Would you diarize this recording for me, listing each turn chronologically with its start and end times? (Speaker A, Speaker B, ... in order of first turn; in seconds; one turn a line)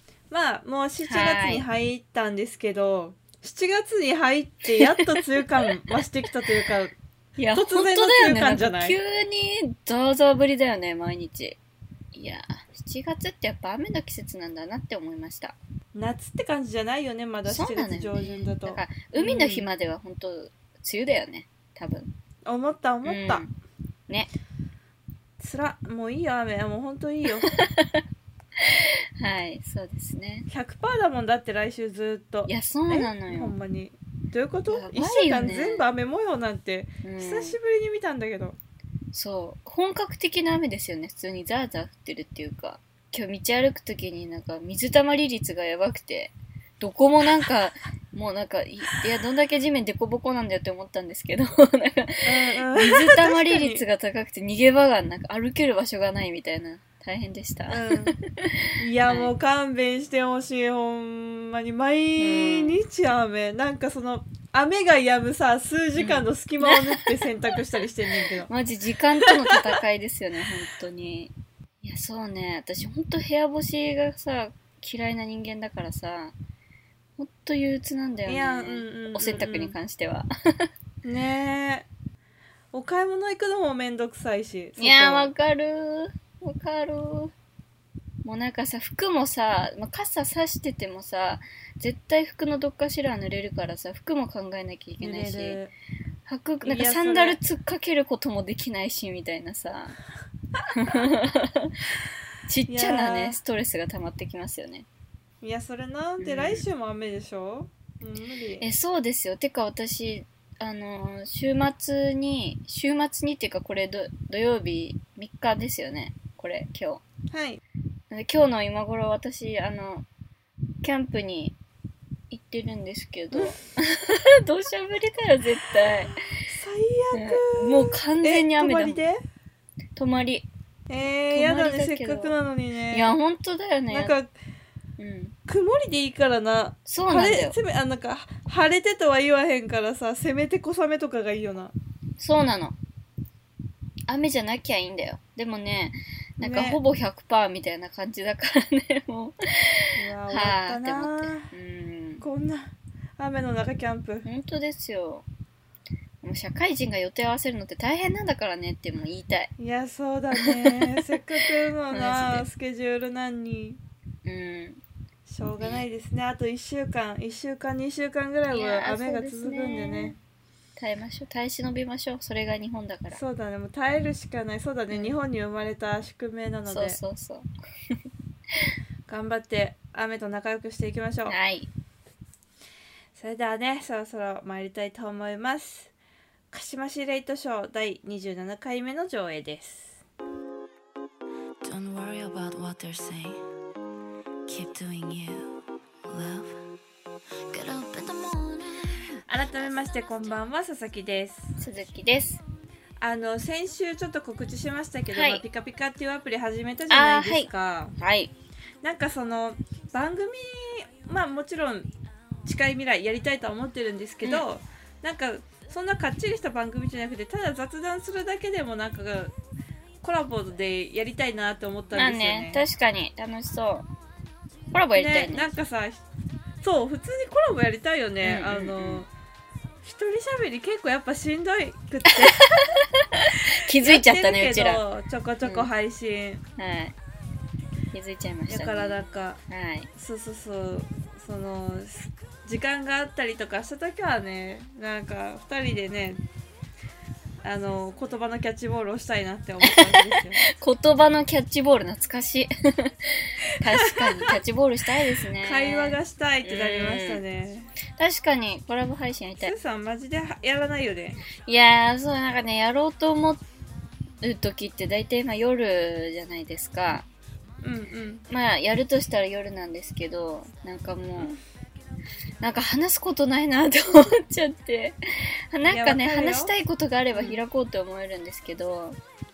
Speaker A: 0.3-7.0
Speaker B: 1.0-1.7
Speaker B: 4.7-5.2
Speaker B: 7.4-11.6
Speaker A: 7.5-9.0
Speaker B: 12.1-15.6
Speaker A: 15.9-19.7
Speaker B: 17.5-22.1
Speaker A: 22.5-23.4
Speaker B: 23.1-23.5
Speaker A: 25.4-27.6
Speaker B: 27.5-28.0
Speaker B: 28.6-30.5
Speaker A: 30.5-38.6
Speaker B: 32.5-33.5
Speaker B: 34.7-35.8
Speaker B: 37.0-37.6
Speaker B: 39.1-59.3
Speaker A: 52.2-53.8
Speaker A: 57.7-58.1
Speaker A: 58.8-68.5
Speaker B: 62.2-62.8
Speaker B: 66.0-67.2
Speaker B: 68.5-76.3
Speaker A: 69.2-69.7
Speaker B: 77.2-80.7
Speaker A: 78.3-79.8
Speaker A: 81.0-81.9
Speaker A: 82.7-85.3
Speaker B: 84.8-87.3
Speaker B: 88.2-95.6
Speaker A: 95.0-95.7
Speaker B: 96.3-100.0
Speaker A: 96.6-97.4
Speaker B: 100.8-101.8
Speaker B: 102.5-104.9
Speaker A: 102.7-103.4
Speaker A: 105.4-108.7
Speaker B: 106.2-106.6
Speaker B: 108.6-117.0
Speaker A: 117.3-117.6
Speaker B: 118.1-120.1
Speaker B: 120.8-121.6
Speaker B: 122.3-126.2
Speaker A: 126.5-129.2
Speaker B: 127.1-129.0
Speaker B: 130.0-130.5
Speaker A: 130.9-133.1
Speaker B: 131.3-132.3
Speaker B: 132.9-134.1
Speaker A: 133.9-134.3
Speaker B: 135.0-135.3
Speaker A: 135.5-141.7
Speaker B: 136.9-137.6
Speaker B: 142.2-142.8
Speaker B: 144.1-152.2
Speaker A: 146.4-146.8
Speaker A: 150.0-151.5
Speaker A: 152.2-154.3
Speaker B: 154.2-155.3
Speaker B: 156.2-159.5
Speaker A: 159.6-163.8
Speaker B: 160.4-161.0
Speaker B: 161.9-162.4
Speaker B: 164.2-164.8
Speaker A: 165.3-170.2
Speaker B: 168.5-170.2
Speaker B: 170.8-173.2
Speaker A: 173.1-177.0
Speaker B: 176.7-178.0
Speaker A: 179.1-181.4
Speaker B: 181.3-181.7
Speaker A: 183.1-185.9
Speaker A: 186.5-190.0
Speaker C: 191.6-193.4
Speaker C: 194.5-195.6
Speaker C: 196.1-196.6
Speaker C: 197.5-198.7
Speaker A: 199.3-201.6
Speaker B: 201.6-202.4
Speaker A: 203.0-207.9
Speaker B: 205.1-205.4
Speaker B: 206.9-208.3
Speaker A: 208.8-211.9
Speaker A: 212.4-219.3
Speaker A: 220.0-222.6
Speaker B: 221.9-223.9
Speaker B: 224.7-225.5
Speaker A: 225.0-226.0
Speaker A: 226.6-229.1
Speaker B: 228.2-229.1
Speaker A: 229.8-232.5
Speaker B: 232.1-234.8
Speaker A: 233.7-236.4
Speaker B: 235.4-235.7
Speaker B: 236.6-237.0
Speaker B: 237.9-239.0
Speaker A: 238.5-239.4
Speaker B: 239.5-239.9
Speaker A: 240.0-246.2
Speaker A: 247.4-250.4
Speaker B: 249.6-257.2
Speaker A: 253.7-254.3
Speaker A: 255.4-257.7
Speaker B: 258.0-259.5
Speaker A: 259.4-261.2
Speaker B: 261.4-263.4
Speaker B: 264.2-267.1
Speaker A: 267.6-268.2
Speaker B: 268.3-271.4
Speaker B: 272.4-279.0
Speaker A: 275.7-276.5
Speaker A: 277.1-277.4